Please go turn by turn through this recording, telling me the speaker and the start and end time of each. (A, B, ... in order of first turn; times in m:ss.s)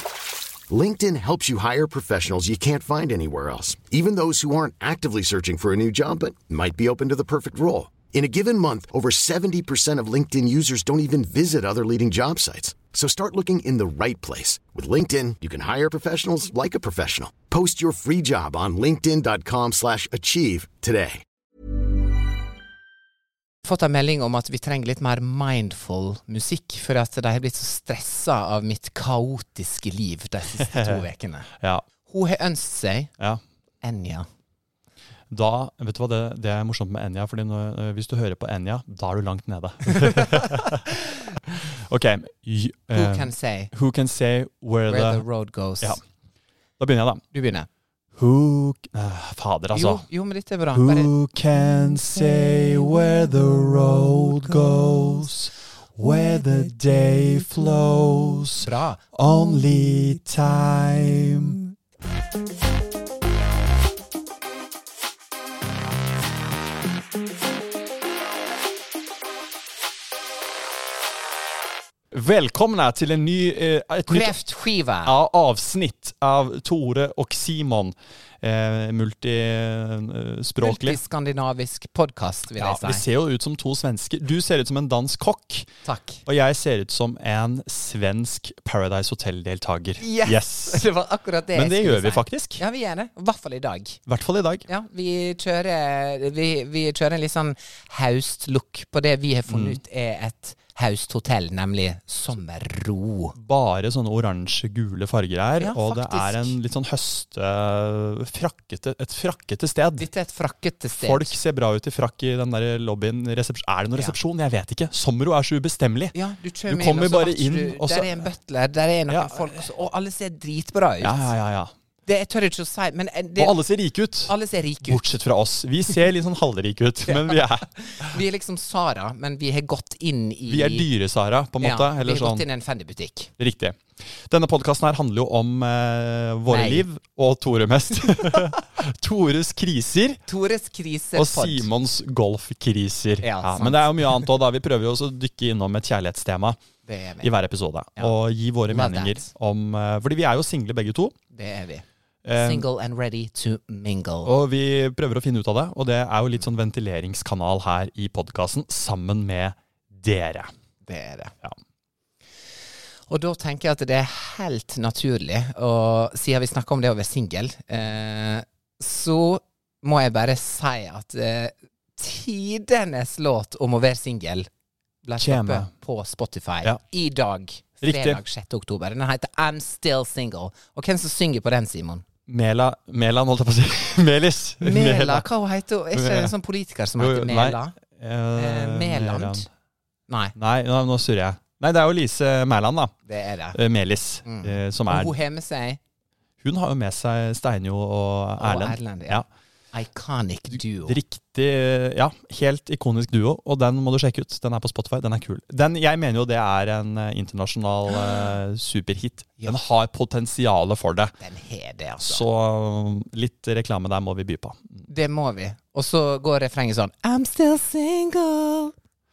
0:00.7-0:21.2 A
0:23.6-0:31.5 B
0:30.7-0:31.0 C
0:32.1-0:33.1 B
0:33.8-0:34.3 B
0:35.3-0:40.9 C
0:39.9-0:40.4 B
0:41.5-0:45.2 C
0:42.9-0:43.7 B
0:44.9-0:46.0 B
0:46.8-0:47.2 C
0:47.3-0:47.7 B
0:48.2-0:50.0 C
0:49.7-0:51.1 B
0:50.7-1:01.6 C
0:58.6-0:59.1 B
1:12.1-1:14.3 C
1:14.1-1:15.2 B
1:15.0-1:21.0 C
1:20.6-1:23.0 B
1:22.6-1:25.7 C
1:25.8-1:26.2 B
1:26.3-1:30.9 C
1:30.0-1:34.0 B
1:31.5-1:32.6 C
1:34.1-1:34.7 C
1:34.7-1:43.4 B
1:39.5-1:39.8 C
1:43.4-1:50.1 C
1:45.6-1:46.6 B
1:50.0-1:51.4 B
1:51.0-1:56.2 C
1:56.1-2:01.3 B
1:56.7-1:58.3 C
1:59.1-1:59.6 C
2:01.0-2:01.7 C
2:02.1-2:03.6 B
2:03.4-2:08.2 C
2:04.3-2:05.0 B
2:07.1-2:10.9 B
2:10.5-2:12.4 C
2:11.6-2:13.3 B
2:13.4-2:20.2 C
2:16.5-2:16.8 B
2:20.3-2:21.7 B
2:21.2-2:26.6 C
2:23.2-2:24.3 B
2:26.9-2:27.3 B
2:27.2-2:31.2 C
2:28.7-2:29.3 B
2:31.3-2:34.3 B
2:32.2-2:32.7 C
2:34.2-2:40.5 C
2:40.8-2:41.3 B
2:43.1-2:54.5 B
2:55.0-3:02.0 B
2:55.2-2:55.7 C
2:57.8-2:58.2 C
3:02.3-3:05.2 C
3:04.6-3:07.8 B
3:05.9-3:06.3 C
3:07.0-3:09.5 C
3:08.4-3:09.5 B
3:10.1-3:10.4 B
3:10.4-3:12.9 C
3:13.1-3:13.6 B
3:13.5-3:15.2 C
3:14.2-3:15.8 B
3:16.4-3:19.3 C
3:18.4-3:19.2 B
3:19.7-3:21.0 B
3:20.8-3:31.1 C
3:31.2-3:32.2 B
3:32.0-3:34.8 C
3:34.9-3:38.7 B